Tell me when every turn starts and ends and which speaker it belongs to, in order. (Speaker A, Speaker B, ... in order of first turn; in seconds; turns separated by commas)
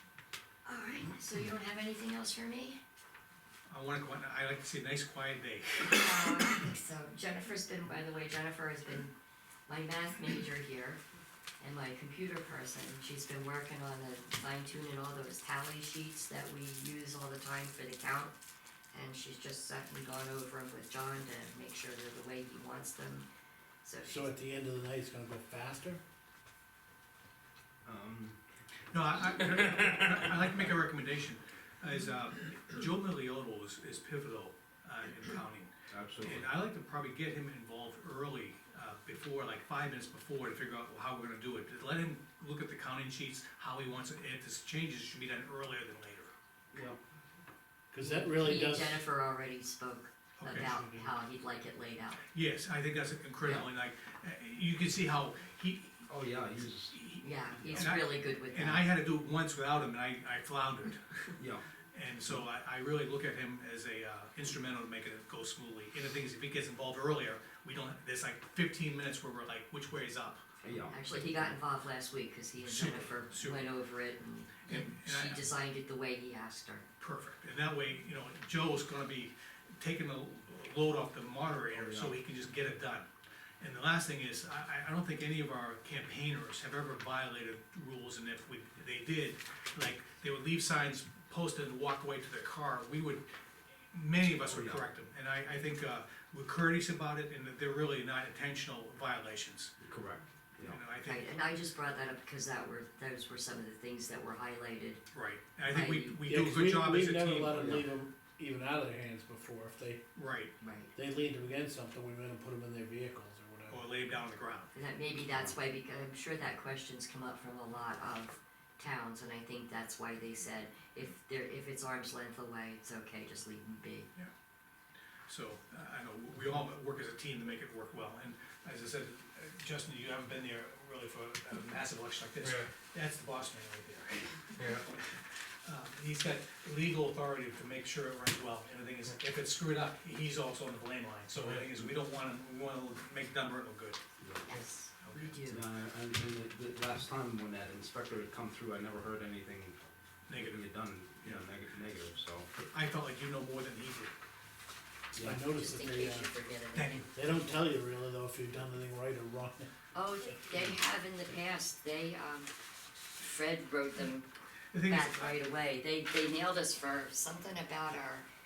Speaker A: 0.7-2.8, Speaker B: 3.7-6.4, Speaker A: 5.8-9.1, Speaker A: 9.7-11.0, Speaker A: 11.6-18.3, Speaker A: 18.9-23.3, Speaker A: 23.8-24.3, Speaker C: 24.1-26.0, Speaker D: 27.8-28.4, Speaker B: 28.9-46.3, Speaker D: 35.9-36.5, Speaker D: 46.7-47.0, Speaker C: 47.9-49.0, Speaker A: 48.0-52.2, Speaker B: 50.4-50.8, Speaker C: 50.6-51.1, Speaker B: 52.3-56.1, Speaker D: 56.1-57.0, Speaker B: 56.9-61.4, Speaker A: 57.2-58.8, Speaker D: 57.5-57.9, Speaker D: 61.4-61.6, Speaker B: 61.9-70.5, Speaker D: 70.6-71.0, Speaker A: 70.6-76.8, Speaker B: 72.6-73.7, Speaker B: 74.7-75.4, Speaker B: 77.0-83.1, Speaker D: 81.7-82.2, Speaker B: 83.6-93.2, Speaker B: 93.9-99.7, Speaker D: 94.4-94.8, Speaker D: 99.8-100.8, Speaker B: 100.6-101.2, Speaker A: 101.0-105.0, Speaker B: 105.1-107.8, Speaker A: 105.7-106.2, Speaker C: 106.2-110.0, Speaker D: 107.5-107.8, Speaker B: 110.1-110.5, Speaker A: 110.6-110.9, Speaker C: 110.9-113.8, Speaker B: 113.7-114.7, Speaker A: 114.7-124.1, Speaker B: 125.3-144.0, Speaker D: 144.2-144.5, Speaker A: 144.4-145.6, Speaker B: 145.0-145.3, Speaker D: 145.4-152.5, Speaker B: 150.3-150.7, Speaker B: 151.2-151.5, Speaker B: 152.6-154.1, Speaker D: 155.1-155.4, Speaker C: 155.2-156.3, Speaker A: 155.5-157.1, Speaker B: 156.7-157.1, Speaker C: 157.1-159.7, Speaker A: 159.9-162.5, Speaker A: 163.2-164.3, Speaker B: 164.7-165.3, Speaker A: 164.8-168.2